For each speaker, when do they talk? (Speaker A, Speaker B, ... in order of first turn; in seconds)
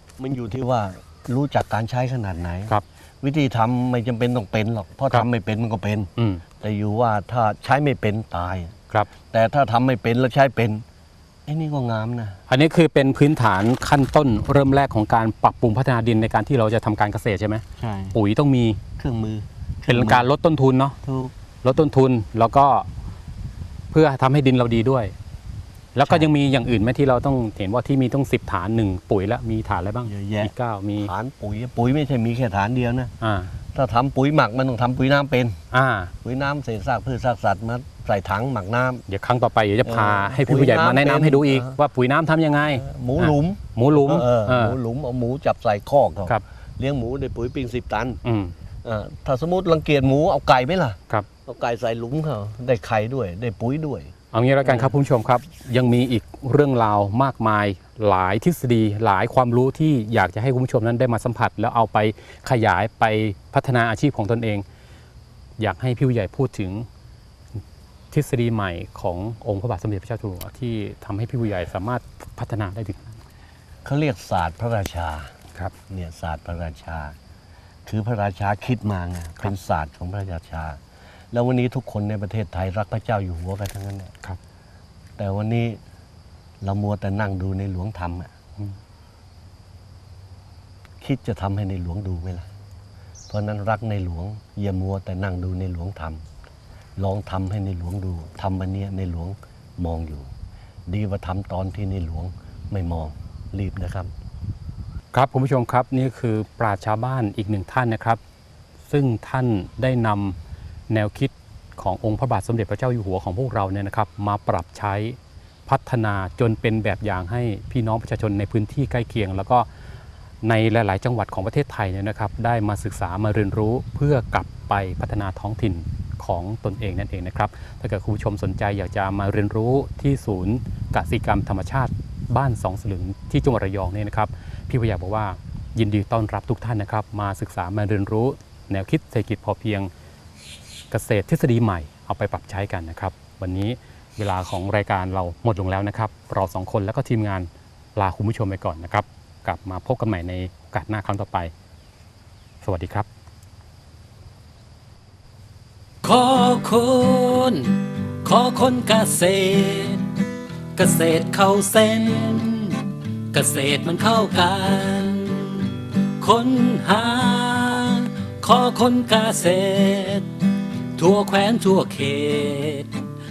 Speaker A: 0.2-6.1, 6.6-8.7, 9.3-10.8, 11.5-12.4, 17.8-18.1, 19.0-20.3, 21.0-21.3, 26.0-26.3, 30.1-33.1, 33.7-35.6, 36.2-39.0, 39.9-41.8, 42.7-48.2, 48.8-54.1, 54.6-54.9, 73.8-75.3, 75.9-77.2, 77.9-80.8, 81.3-84.1, 85.2-85.8, 86.6-88.3, 91.0-92.5, 93.3-96.2, 97.0-100.3, 100.9-104.1
Speaker B: 6.2-6.4, 12.5-18.8, 19.9-21.0, 21.6-22.9, 23.9-25.1, 25.9-31.1, 33.2-33.5, 35.7-36.1, 39.1-44.8, 48.2-48.5, 54.3-64.7, 65.6-66.9, 68.1-73.2, 105.1-108.2, 108.9-110.4, 110.9-119.7, 120.4-139.9, 140.9-151.5, 152.6-153.1
Speaker C: 156.0-160.1, 160.8-170.3, 171.0-173.0